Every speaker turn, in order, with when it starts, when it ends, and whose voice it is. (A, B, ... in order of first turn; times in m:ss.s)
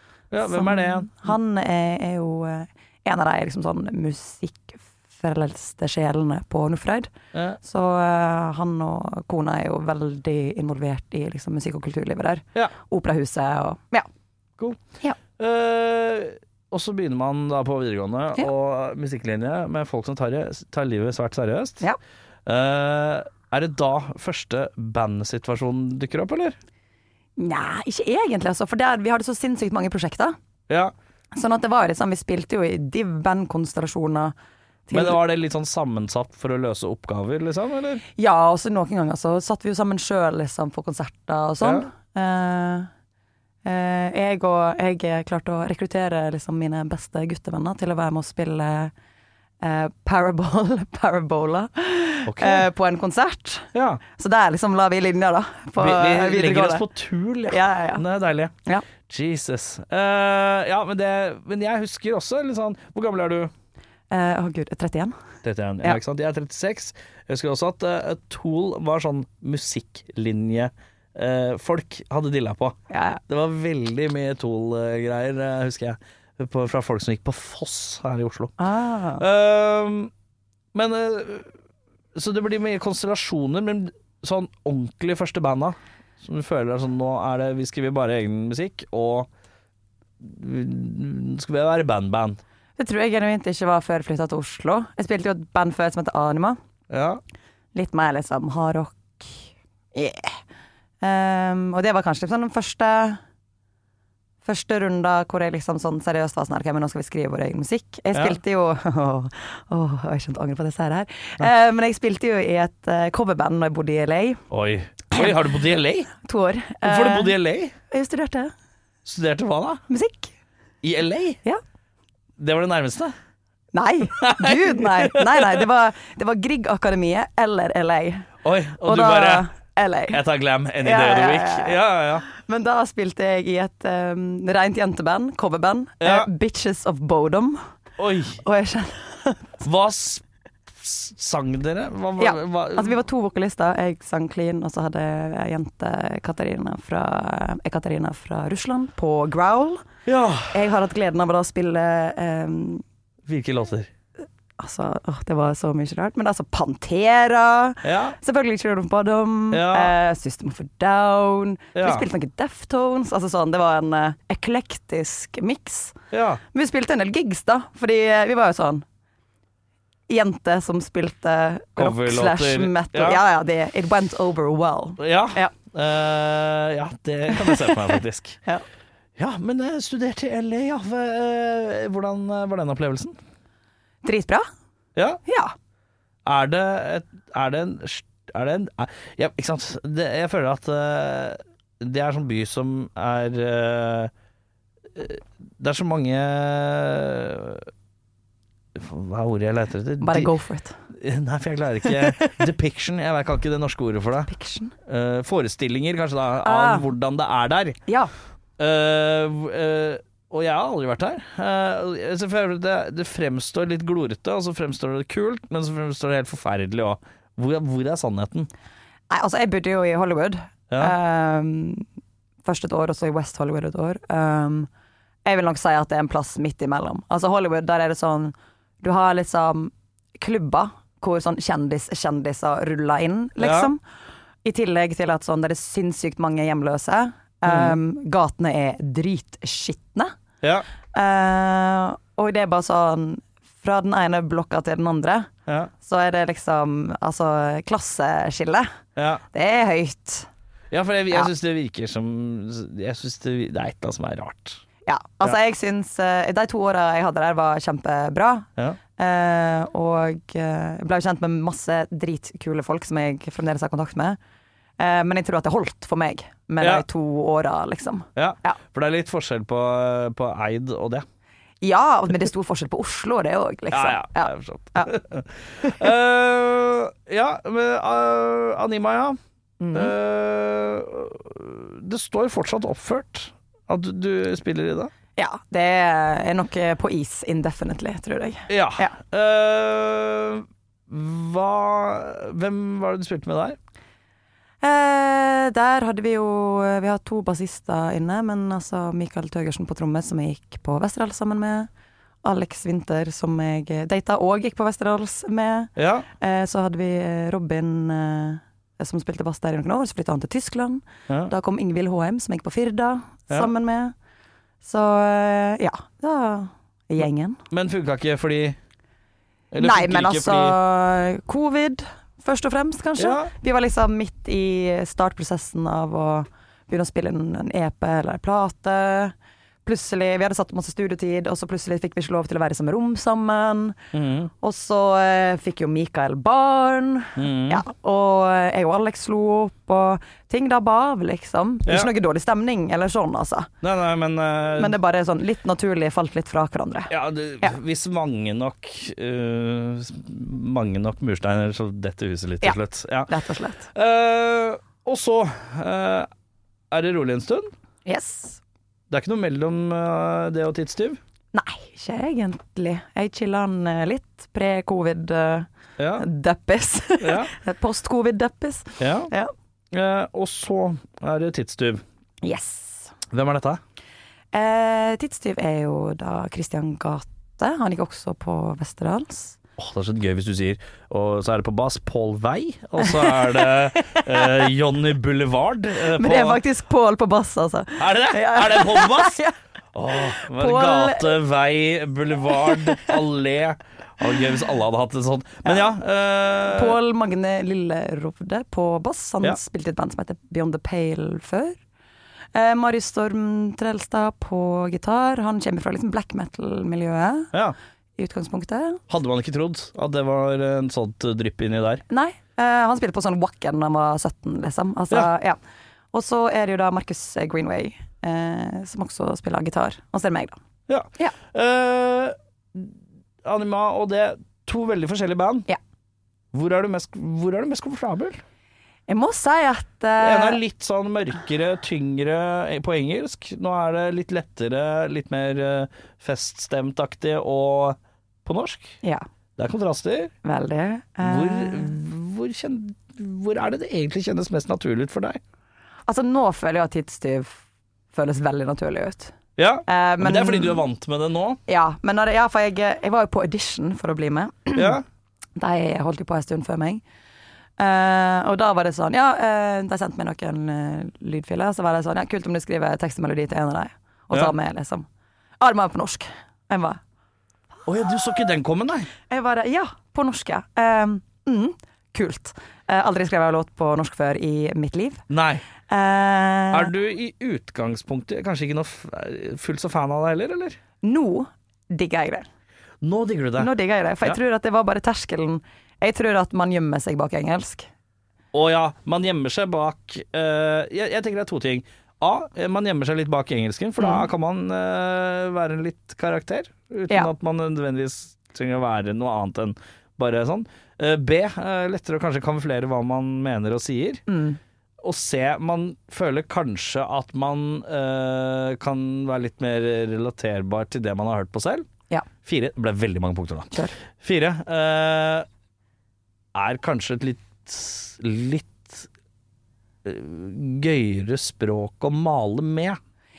0:00.3-0:01.3 A
0:00.4-0:07.1 B
0:07.3-0:07.6 A
0:07.6-0:14.1 B
0:15.4-0:21.8 A
0:22.4-0:26.6 A
0:27.4-0:30.4 B
0:31.3-0:34.3 B
0:34.9-0:35.2 B
0:34.9-0:38.0 A
0:38.2-0:42.9 B
0:41.6-0:41.9 A
0:43.6-0:48.9 B
0:49.6-0:56.8 B
0:52.2-0:52.7 A
0:53.7-0:54.0 A
0:55.8-1:03.5 A
0:57.5-0:58.0 B
1:04.1-1:05.1 B
1:05.4-1:12.8 A
1:12.9-1:13.2 B
1:13.3-1:18.5 A
1:18.6-1:19.2 B
1:19.2-1:20.1 A
1:20.7-1:21.5 A
1:22.1-1:29.3 A
1:30.2-1:32.4 A
1:32.8-1:36.6 B
1:36.9-1:37.2 A
1:37.7-1:40.4 B
1:41.0-1:43.2 B
1:44.4-1:54.4 B
1:54.5-1:56.1 A
1:56.2-1:57.3 B
1:56.8-1:57.7 A
1:57.9-1:58.5 B
1:59.0-1:59.8 A
1:59.9-2:00.3 B
2:00.8-2:01.4 A
2:02.4-2:03.1 A
2:03.7-2:08.3 B
2:04.2-2:05.6 A
2:08.4-2:09.4 A
2:08.8-2:10.2 B
2:10.1-2:12.2 A
2:10.8-2:17.6 B
2:16.0-2:16.3 A
2:18.0-2:18.4 A
2:18.4-2:19.6 B
2:19.6-2:23.0 A
2:22.2-2:29.8 B
2:30.0-2:30.6 A
2:30.5-2:32.8 B
2:33.2-2:33.9 A
2:34.6-2:46.0 B
2:37.8-2:38.2 A
2:39.5-2:39.9 A
2:41.7-2:42.0 A
2:46.1-2:46.4 A
2:46.5-2:48.8 B
2:50.1-2:55.5 B
2:51.8-2:53.2 A
2:55.0-2:58.4 A
2:59.2-3:03.2 A
3:04.0-3:04.4 B
3:04.9-3:05.2 A
3:05.2-3:05.5 B
3:06.2-3:14.1 A
3:14.9-3:17.7 A
3:18.7-3:20.3 A
3:20.0-3:20.8 B
3:20.9-3:24.3 A
3:24.3-3:24.7 B
3:24.8-3:27.8 A
3:26.4-3:26.9 B
3:28.6-3:38.5 A
3:39.1-3:41.8 B
3:42.4-3:44.7 B
3:45.2-3:53.8 B
3:53.4-3:53.7 A
3:54.4-4:00.1 B
3:57.4-3:57.8 A
4:00.9-4:08.7 B
4:09.0-4:09.2 A
4:09.3-4:10.3 B
4:10.7-4:14.6 A
4:14.8-4:24.2 B
4:24.8-4:28.6 B
4:28.2-4:31.0 A
4:31.6-4:34.9 B
4:33.7-4:39.2 A
4:39.6-4:39.9 B
4:39.7-4:44.9 A
4:45.2-4:48.9 B
4:48.5-4:53.6 A
4:54.6-5:01.7 B
5:02.2-5:13.9 B
5:05.8-5:06.1 A
5:14.6-5:17.4 B
5:17.5-5:18.6 A
5:19.5-5:20.6 A
5:19.6-5:29.1 B
5:23.0-5:23.3 A
5:29.6-5:33.8 B
5:33.9-5:34.3 A
5:34.4-5:43.5 B
5:37.2-5:37.6 A
5:43.6-5:44.8 A
5:44.6-5:47.5 B
5:46.9-5:53.1 A
5:53.1-5:53.7 B
5:53.7-5:56.1 A
5:56.7-5:57.5 A
5:57.8-5:58.4 B
5:58.9-6:01.0 A
6:01.3-6:09.3 B
6:05.8-6:06.0 A
6:07.0-6:07.3 A
6:08.8-6:09.1 A
6:09.7-6:11.8 A
6:12.2-6:12.9 B
6:13.1-6:13.6 A
6:14.3-6:19.4 B
6:19.6-6:26.4 A
6:22.8-6:24.3 B
6:25.9-6:29.3 B
6:27.8-6:29.2 A
6:29.7-6:36.8 A
6:30.2-6:31.2 B
6:32.4-6:32.9 B
6:35.4-6:35.7 B
6:36.4-6:41.6 B
6:42.3-6:47.3 B
6:48.0-6:48.8 B
6:48.9-6:51.8 A
6:51.9-6:55.4 B
6:55.9-7:00.4 B
7:00.7-7:05.5 A
7:06.3-7:08.2 A
7:08.9-7:10.4 B
7:10.0-7:18.8 A
7:19.4-7:20.1 A
7:20.2-7:21.7 B
7:21.0-7:25.2 A
7:25.9-7:27.4 B
7:27.9-7:29.1 B
7:29.4-7:31.4 A
7:29.6-7:30.6 B
7:31.5-7:34.8 B
7:34.5-7:34.8 A
7:35.4-7:36.8 B
7:37.6-7:44.8 B
7:45.4-7:46.8 B
7:47.6-7:48.9 A
7:49.1-7:55.0 B
7:55.1-7:55.4 A
7:55.7-7:56.7 B
7:56.5-8:00.6 A
8:00.8-8:02.3 B
8:02.8-8:03.5 A
8:03.4-8:07.7 B
8:08.3-8:24.0 A
8:13.8-8:14.0 B
8:24.1-8:24.4 B
8:24.8-8:31.7 A
8:32.2-8:35.3 A
8:36.3-8:38.9 A
8:39.8-8:42.8 A